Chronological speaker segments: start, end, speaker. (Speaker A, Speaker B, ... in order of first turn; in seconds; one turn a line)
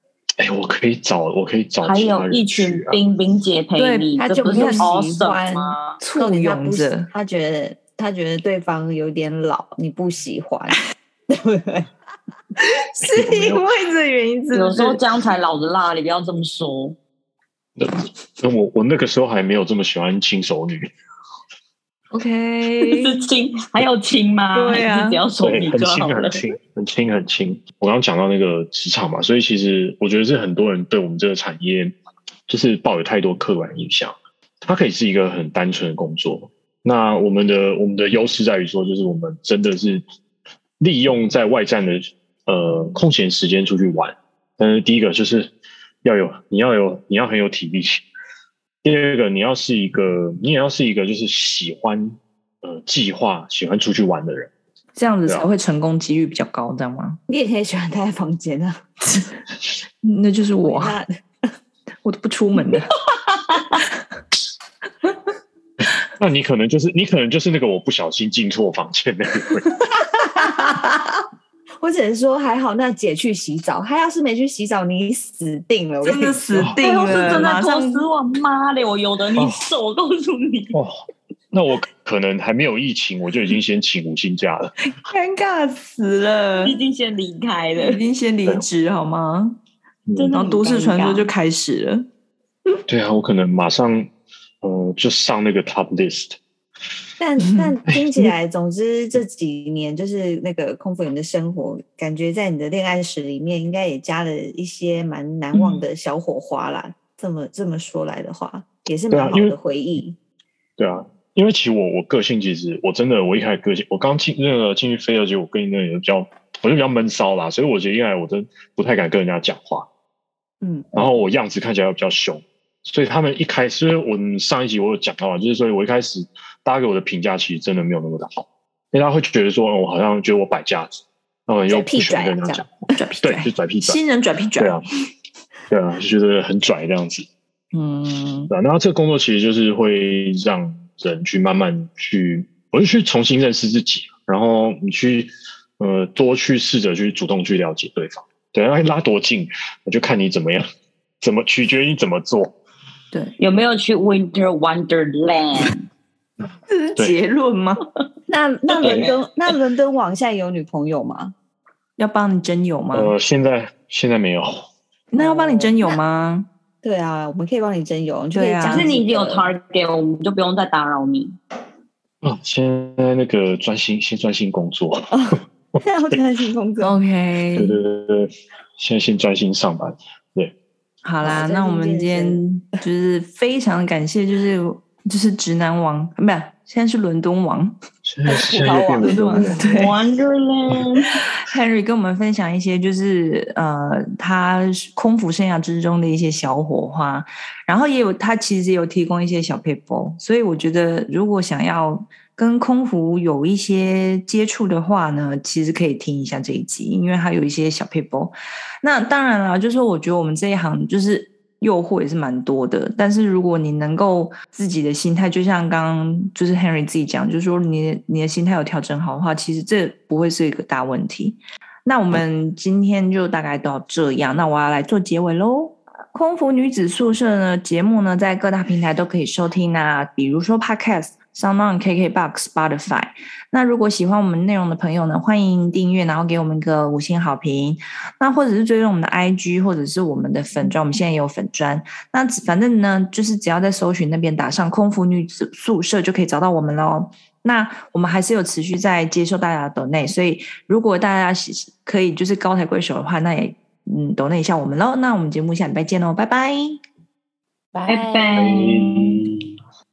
Speaker A: 0.4-3.0
Speaker B: 1.8-6.0
Speaker C: 3.8-4.9
Speaker D: 4.2-11.9
Speaker C: 6.0-7.1
Speaker C: 12.6-15.0
Speaker A: 13.1-13.6
Speaker B: 14.5-16.9
Speaker A: 17.8-20.9
Speaker C: 22.1-23.2
Speaker B: 22.8-26.4
Speaker C: 24.5-25.2
Speaker A: 25.4-31.9
Speaker A: 32.5-40.0
Speaker A: 40.8-45.5
Speaker A: 46.0-48.0
Speaker A: 48.8-54.5
Speaker C: 55.0-57.2
Speaker D: 57.3-58.8
Speaker C: 60.0-61.0
Speaker D: 60.6-61.0
Speaker C: 62.0-63.0
Speaker A: 66.2-69.7
Speaker D: 70.3-70.8
Speaker D: 71.8-77.2
Speaker C: 76.0-78.0
Speaker B: 76.8-80.8
Speaker A: 79.3-79.6
Speaker A: 81.5-84.7
Speaker C: 84.8-86.8
Speaker B: 86.6-88.0
Speaker C: 87.8-89.6
Speaker A: 90.1-90.5
Speaker B: 90.2-91.3
Speaker C: 90.3-92.1
Speaker A: 92.9-94.1
Speaker A: 94.6-96.4
Speaker D: 97.2-110.2
Speaker C: 97.4-97.7
Speaker A: 97.9-98.3
Speaker A: 109.1-109.5
Speaker A: 110.8-119.9
Speaker D: 120.6-120.9
Speaker A: 120.9-132.7
Speaker D: 131.7-132.7
Speaker C: 132.9-134.8
Speaker A: 133.2-134.0
Speaker A: 134.6-134.8
Speaker A: 135.7-137.3
Speaker C: 137.7-138.5
Speaker A: 138.5-150.6
Speaker A: 151.2-152.5
Speaker B: 153.4-155.8
Speaker C: 156.7-157.8
Speaker D: 158.3-161.3
Speaker B: 158.8-159.1
Speaker A: 158.8-159.1
Speaker C: 162.0-163.1
Speaker A: 162.9-164.7
Speaker C: 165.1-166.5
Speaker D: 165.1-165.9
Speaker D: 166.8-169.5
Speaker C: 168.3-168.9
Speaker B: 168.6-171.4
Speaker A: 172.2-175.3
Speaker D: 175.1-177.0
Speaker C: 176.8-177.8
Speaker A: 177.5-180.5
Speaker C: 181.0-187.8
Speaker D: 181.2-182.4
Speaker A: 188.0-189.6
Speaker D: 188.2-189.8
Speaker C: 189.0-189.9
Speaker B: 189.6-191.2
Speaker C: 191.3-256.8
Speaker D: 257.7-258.3
Speaker B: 257.9-259.2
Speaker A: 258.3-259.5